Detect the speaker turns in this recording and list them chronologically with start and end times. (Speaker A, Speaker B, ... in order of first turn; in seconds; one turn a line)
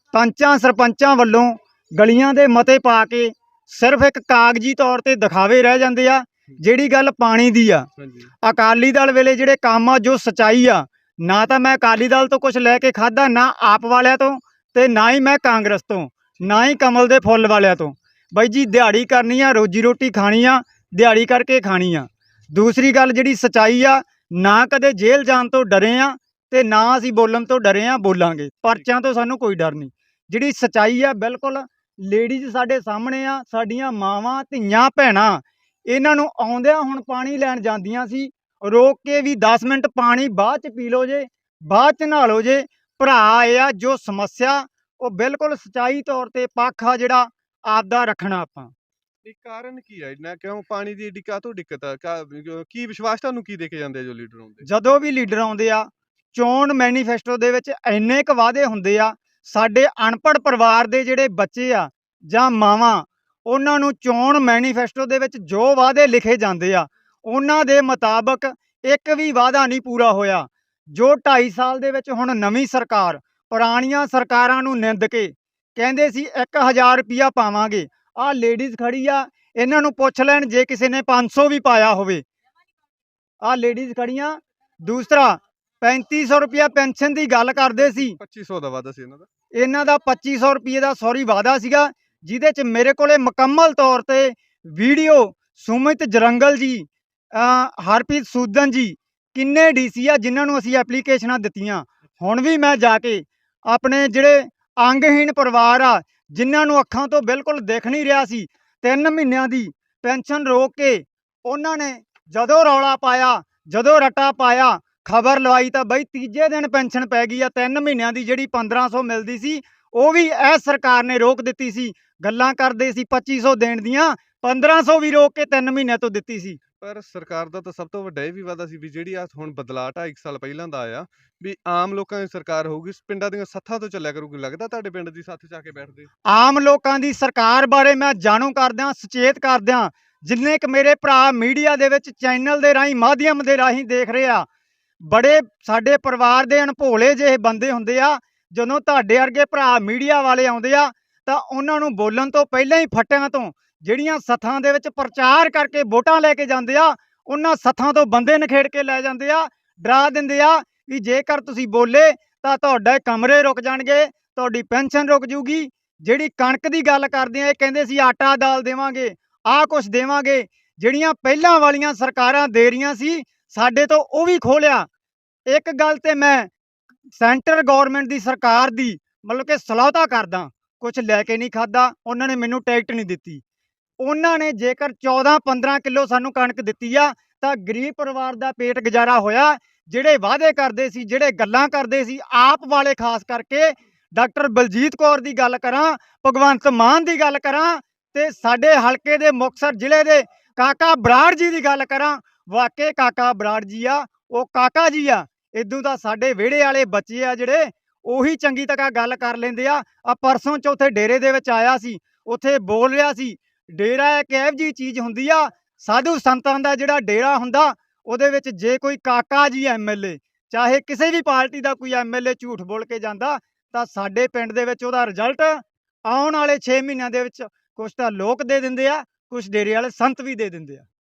Speaker A: 0.1-7.9
Speaker B: 8.0-8.3
Speaker A: 8.4-48.7
Speaker B: 49.2-54.7
Speaker A: 54.6-82.2
Speaker A: 83.4-88.2
Speaker B: 87.9-89.3
Speaker A: 89.5-126.6
Speaker B: 126.8-136.1
Speaker A: 136.3-144.5
Speaker A: 145.1-174.9
Speaker A: 175.5-176.5
Speaker A: 177.2-183.4
Speaker A: 184.0-230.9